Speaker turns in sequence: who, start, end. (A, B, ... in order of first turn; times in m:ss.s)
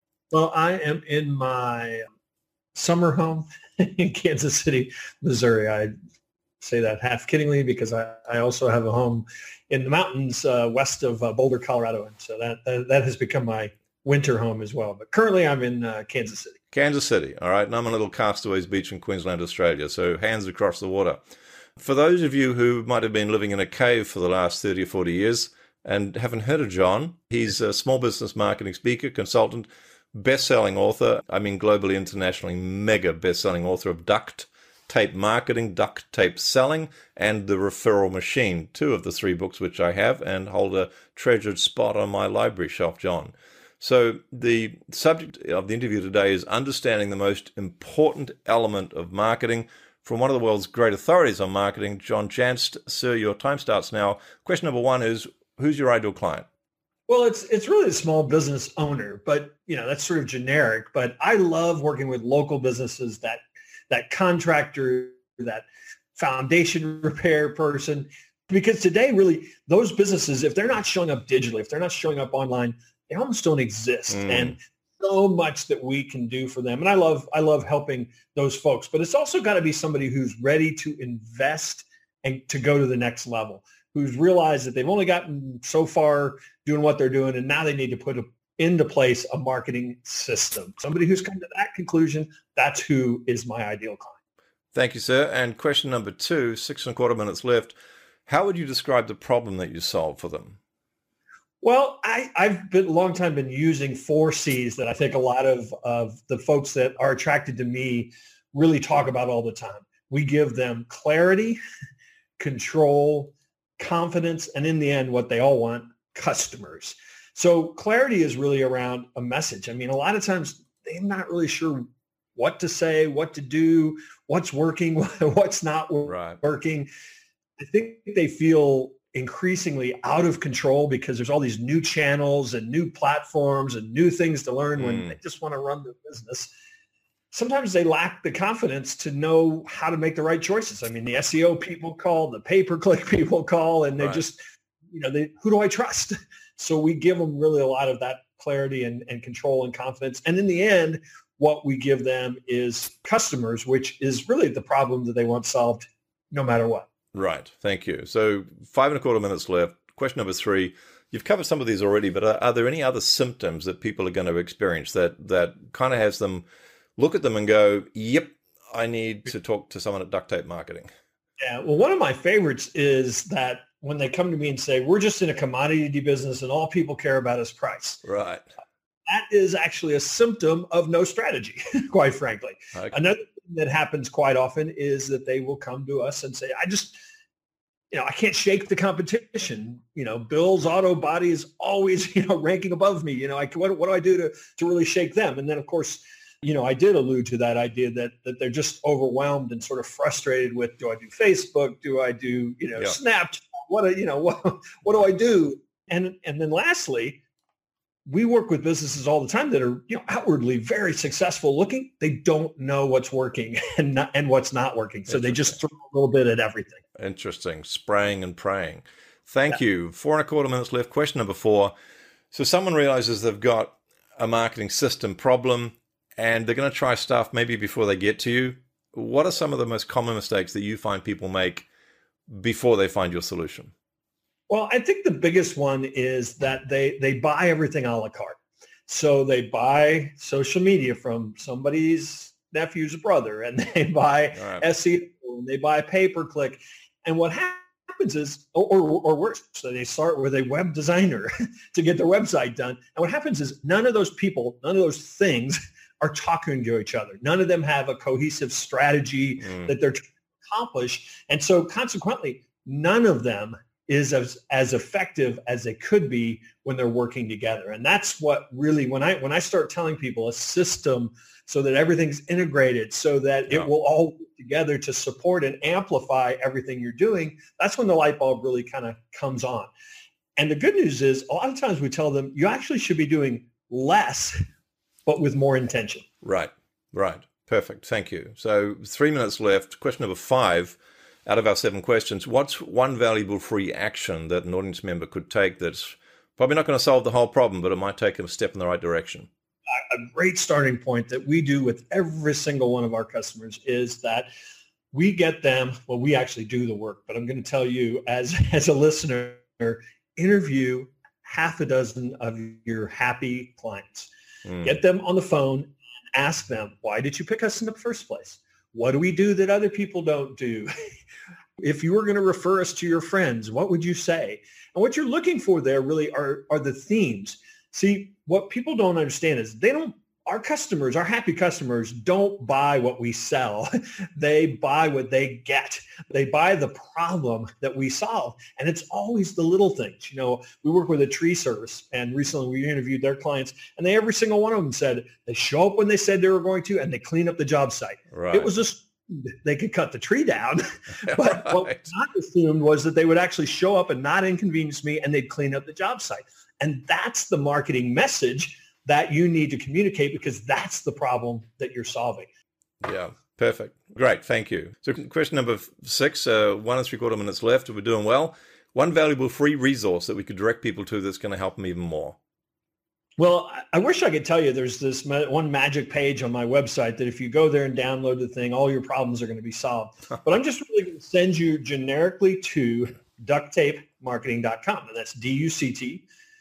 0:00.3-0:02.0 A
0:02.7-0:05.9 A
0:06.6-0:16.6 A
0:16.7-0:21.2 B
0:21.8-0:56.4 B
0:57.1-1:34.2 A
1:14.1-1:14.5 B
1:34.7-1:37.7 B
1:38.3-1:40.6 B
1:41.6-1:51.6 A
1:52.4-2:06.9 A
2:06.0-2:06.4 B
2:07.6-2:16.5 A
2:14.8-2:15.1 B
2:17.3-2:24.4 A
2:24.9-2:36.9 A
2:37.1-2:46.4 B
2:47.0-2:50.9 B
2:51.4-2:58.0 A
2:58.0-2:58.4 B
2:59.1-3:07.0 A
3:07.9-3:27.2 A
3:28.0-3:36.8 A
3:35.1-3:35.5 B
3:37.0-3:41.7 B
3:42.3-3:51.6 B
3:52.3-3:53.7 B
3:54.5-4:39.7 A
4:04.3-4:04.6 B
4:40.4-4:44.4 A
4:45.0-4:46.0 A
4:46.2-4:59.3 B
4:59.9-5:04.3 A
5:04.9-5:14.1 A
5:14.4-5:14.7 B
5:14.6-5:20.7 A
5:21.6-6:02.3 A
5:48.1-5:48.5 B
5:51.1-5:51.8 B
6:02.8-6:12.2 B
6:13.2-6:26.0 A